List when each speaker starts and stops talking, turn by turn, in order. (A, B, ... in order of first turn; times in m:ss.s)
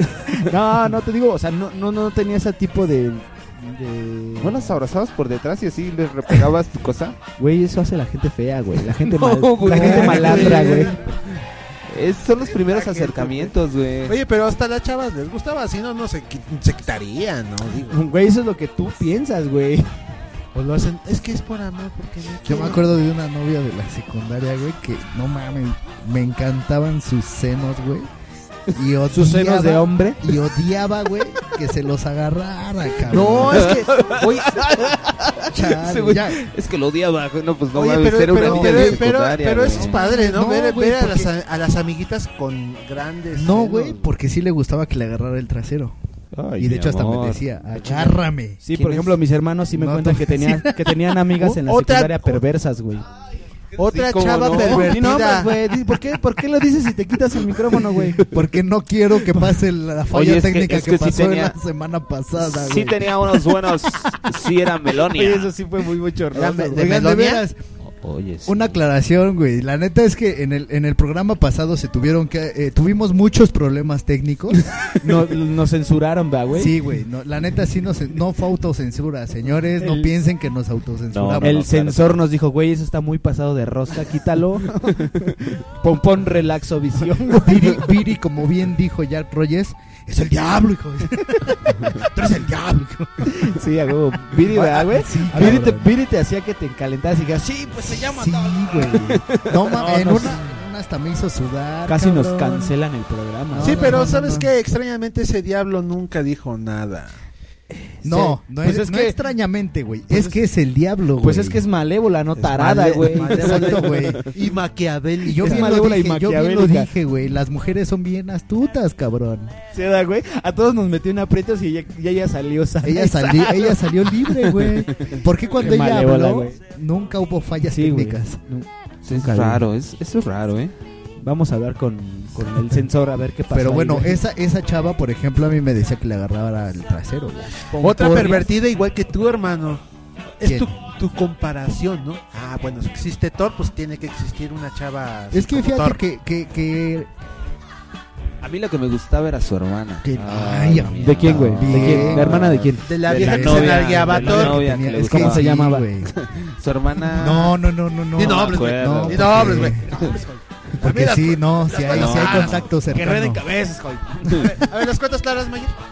0:00.2-0:04.8 A
0:04.4-0:07.2 B
0:07.4-0:11.0 A
0:09.0-0:10.8 B
0:09.7-0:11.1 C
0:11.9-0:14.2 B
0:12.7-0:13.5 C
0:14.1-0:18.0 C
0:17.9-0:19.9 A
0:20.5-0:22.8 C
0:22.4-0:28.1 D
0:28.7-0:33.7 D
0:29.1-0:30.2 A
0:33.1-0:34.9 C
0:33.6-0:40.0 B
0:35.5-0:36.4 D
0:37.7-0:44.1 C
0:38.3-0:39.1 D
0:39.7-0:41.3 D
0:43.3-0:45.9 D
0:46.3-0:48.2 B
0:46.6-0:48.6 D
0:48.6-0:53.0 A
0:48.7-0:49.2 B
0:49.7-0:51.4 D
0:51.5-0:52.4 C
0:53.8-0:55.6 C
0:53.9-0:55.1 B
0:54.4-0:58.3 A
0:58.3-1:03.2 D
1:00.1-1:01.6 B
1:02.5-1:05.5 B
1:05.0-1:06.9 A
1:06.3-1:07.4 C
1:06.7-1:07.6 D
1:07.9-1:08.8 B
1:08.4-1:14.7 D
1:15.0-1:16.7 A
1:16.5-1:21.7 D
1:19.8-1:20.1 A
1:21.1-1:22.2 B
1:21.4-1:27.8 A
1:27.4-1:33.4 D
1:31.2-1:32.4 A
1:33.2-1:40.4 A
1:34.3-1:35.9 D
1:38.0-1:42.7 D
1:41.9-1:44.0 A
1:43.5-1:44.5 D
1:43.6-1:47.2 C
1:47.7-1:49.2 A
1:48.0-1:51.6 D
1:50.1-1:50.4 A
1:51.2-1:53.8 A
1:52.4-1:55.8 C
1:53.4-1:54.2 D
1:55.2-1:59.5 D
1:55.4-1:56.9 A
1:59.7-2:03.8 A
2:02.8-2:08.4 D
2:05.6-2:06.6 A
2:07.7-2:09.6 A
2:09.0-2:10.7 B
2:11.2-2:14.2 A
2:13.5-2:17.6 D
2:17.7-2:18.5 A
2:17.8-2:19.8 C
2:20.4-2:26.0 C
2:20.4-2:20.7 D
2:25.3-2:27.1 D
2:28.4-2:35.4 B
2:30.0-2:32.5 D
2:31.0-2:32.8 A
2:32.9-2:34.6 C
2:33.1-2:36.1 D
2:35.0-2:35.8 A
2:36.1-2:37.6 B
2:37.1-2:40.0 D
2:38.2-2:42.6 C
2:38.2-2:40.1 B
2:40.8-2:43.4 D
2:41.9-2:42.7 B
2:42.9-2:44.5 A
2:44.4-2:45.8 C